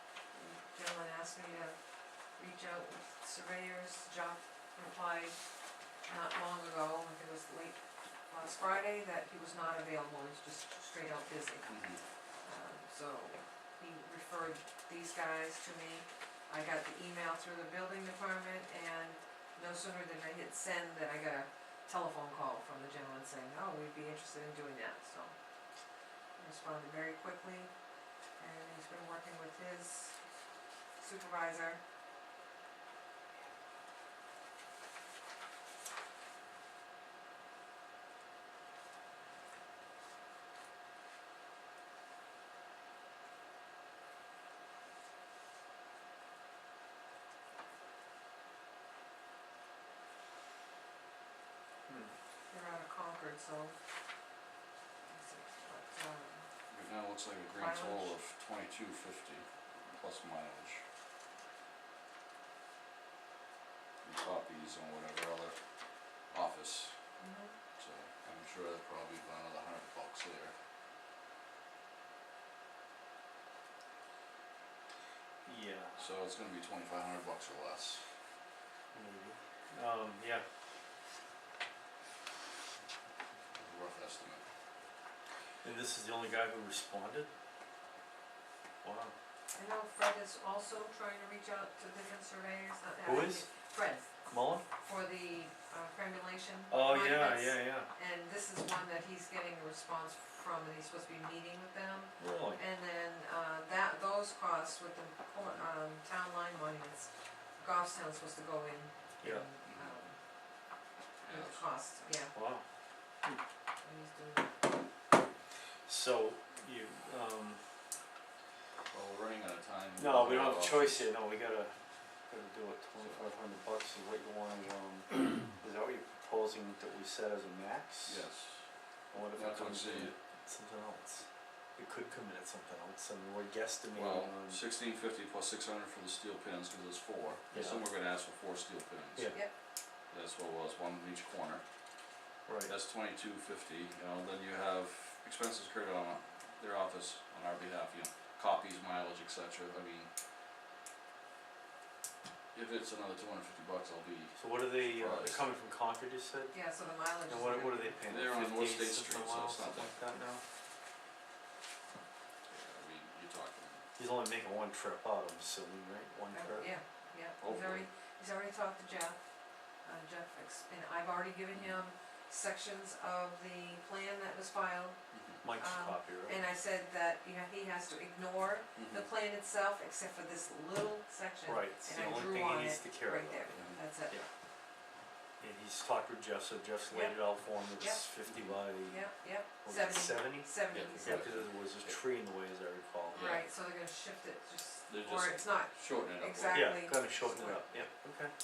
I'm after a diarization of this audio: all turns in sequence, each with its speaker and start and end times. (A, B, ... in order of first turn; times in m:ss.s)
0:00.3-0:01.8 A
0:02.4-0:05.4 A
0:06.1-0:07.8 A
0:08.3-0:11.8 A
0:11.7-0:12.0 B
0:12.4-0:25.3 A
0:26.4-0:27.7 A
0:28.4-0:30.1 A
0:31.0-0:31.8 A
0:52.5-0:53.7 A
0:55.1-0:56.4 A
0:56.7-1:00.8 B
0:57.6-0:58.1 A
1:04.0-1:05.6 B
1:06.3-1:06.9 B
1:07.2-1:07.5 A
1:07.8-1:10.5 B
1:15.5-1:16.0 C
1:16.0-1:18.0 B
1:18.9-1:20.4 C
1:23.6-1:24.4 B
1:25.6-1:27.3 C
1:28.8-1:29.1 C
1:29.6-1:34.2 A
1:33.0-1:33.5 C
1:34.3-1:34.6 C
1:34.8-1:50.2 A
1:36.7-1:37.9 C
1:42.2-1:42.6 C
1:49.2-1:49.5 C
1:49.7-1:49.9 B
1:51.2-1:51.6 B
1:51.3-1:52.3 A
1:52.3-1:52.6 C
1:53.8-1:54.6 A
1:55.9-1:57.6 C
1:58.9-2:01.1 B
2:00.0-2:01.8 C
2:02.3-2:08.2 C
2:08.1-2:08.7 B
2:09.1-2:11.3 C
2:09.3-2:10.2 B
2:11.8-2:14.6 C
2:14.0-2:19.4 B
2:17.5-2:17.8 C
2:19.2-2:19.4 C
2:20.1-2:21.6 B
2:22.5-2:22.7 C
2:22.7-2:30.1 B
2:32.5-2:35.4 B
2:34.4-2:36.6 C
2:36.5-2:38.0 A
2:37.3-2:40.4 C
2:38.1-2:40.0 B
2:42.5-2:43.8 B
2:44.0-2:46.7 C
2:46.3-2:49.2 A
2:47.4-2:47.9 B
2:49.8-2:55.0 A
2:51.5-2:51.8 B
2:55.1-2:55.4 B
2:55.4-2:56.4 C
2:55.6-3:04.2 A
2:58.8-2:59.1 B
3:01.5-3:04.3 C
3:03.5-3:03.8 B
3:05.4-3:09.1 C
3:06.9-3:08.1 A
3:08.9-3:11.2 A
3:09.6-3:13.4 C
3:10.7-3:12.0 B
3:13.1-3:13.4 B
3:13.1-3:17.6 A
3:14.9-3:16.9 B
3:16.5-3:18.3 C